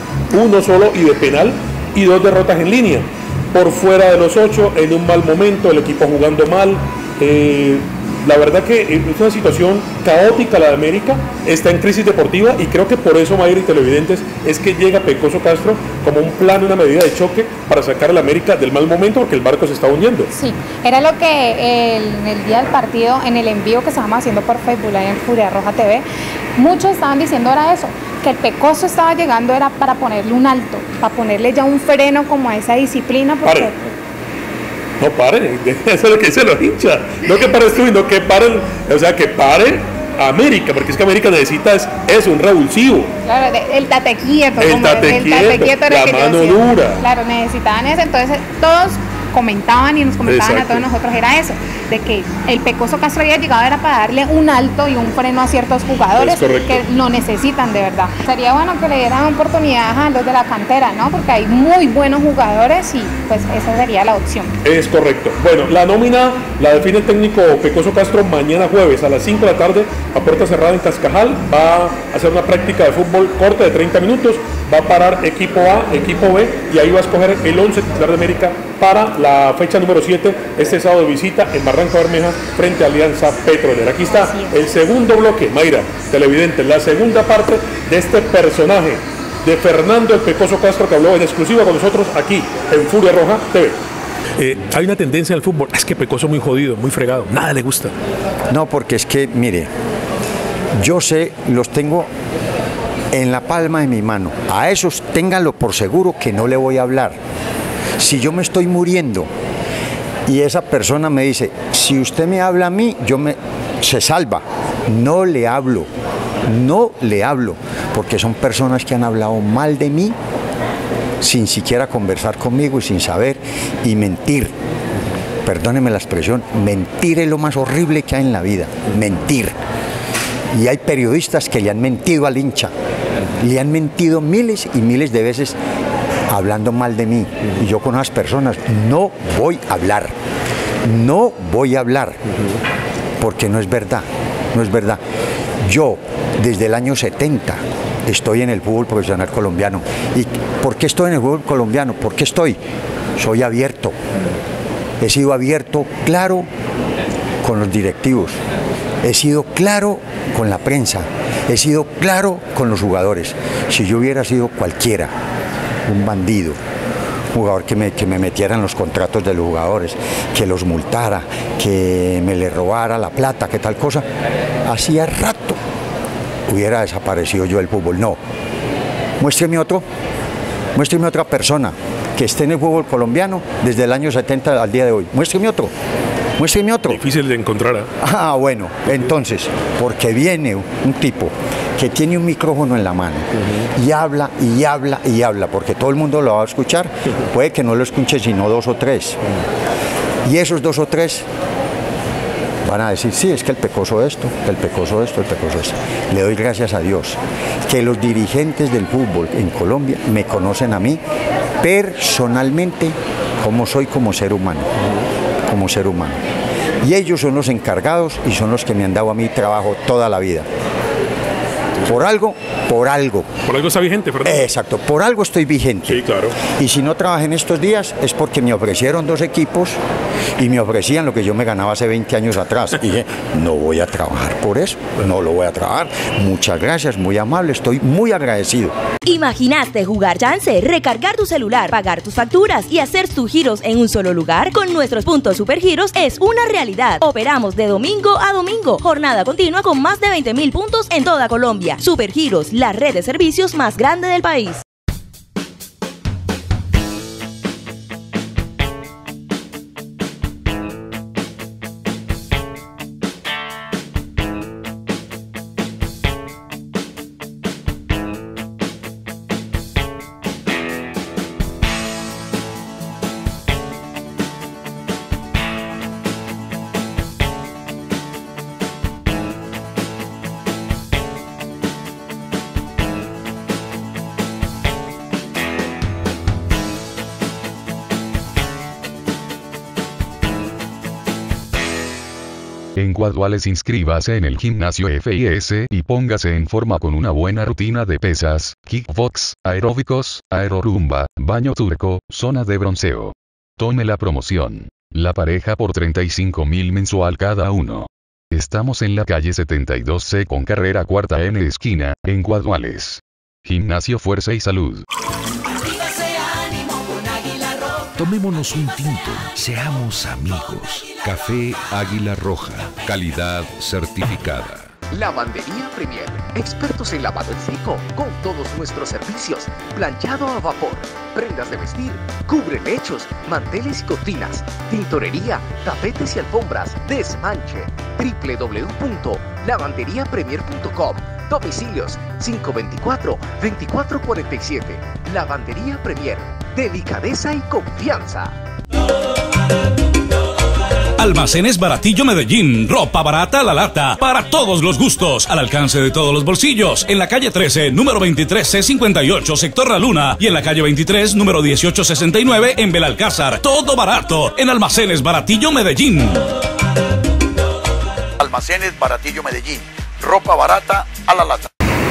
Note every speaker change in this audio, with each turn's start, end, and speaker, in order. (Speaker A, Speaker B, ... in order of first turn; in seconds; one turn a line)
Speaker A: 0.3-20.3
Speaker B: 20.3-26.0
Speaker B: 26.6-33.7
Speaker A: 33.4-33.7
Speaker A: 35.0-43.1
Speaker B: 43.2-64.5
Speaker A: 44.6-47.0
Speaker A: 50.2-50.9
Speaker A: 56.2-56.8
Speaker A: 64.6-93.8
Speaker B: 84.2-84.6
Speaker A: 94.4-97.9
Speaker C: 98.5-99.7
Speaker C: 100.8-102.1
Speaker C: 103.1-107.2
Speaker C: 108.0-109.3
Speaker C: 110.2-115.9
Speaker C: 116.4-120.2
Speaker C: 121.2-124.5
Speaker C: 125.4-129.6
Speaker C: 130.5-132.7
Speaker C: 133.4-135.6
Speaker C: 136.3-140.2
Speaker C: 140.8-142.2
Speaker C: 143.2-145.0
Speaker C: 145.6-152.6
Speaker C: 153.2-154.0
Speaker C: 155.0-156.5
Speaker C: 157.4-158.4
Speaker C: 159.0-165.1
Speaker C: 165.8-166.6
Speaker C: 167.3-174.0
Speaker C: 174.6-175.6
Speaker C: 176.5-178.2
Speaker C: 179.2-179.8
Speaker C: 180.7-185.7
Speaker C: 186.4-187.0
Speaker A: 186.9-187.9
Speaker C: 188.0-199.2
Speaker C: 200.2-201.2
Speaker C: 202.6-211.0
Speaker C: 211.6-214.7
Speaker C: 215.5-216.2
Speaker C: 216.8-220.5
Speaker C: 221.8-223.3
Speaker A: 223.4-224.5
Speaker C: 224.2-229.8
Speaker A: 225.9-226.3
Speaker C: 230.4-238.7
Speaker D: 239.0-254.6
Speaker E: 292.8-314.9
Speaker F: 317.9-324.7
Speaker G: 324.9-348.3
Speaker H: 351.0-366.2
Speaker I: 368.2-371.5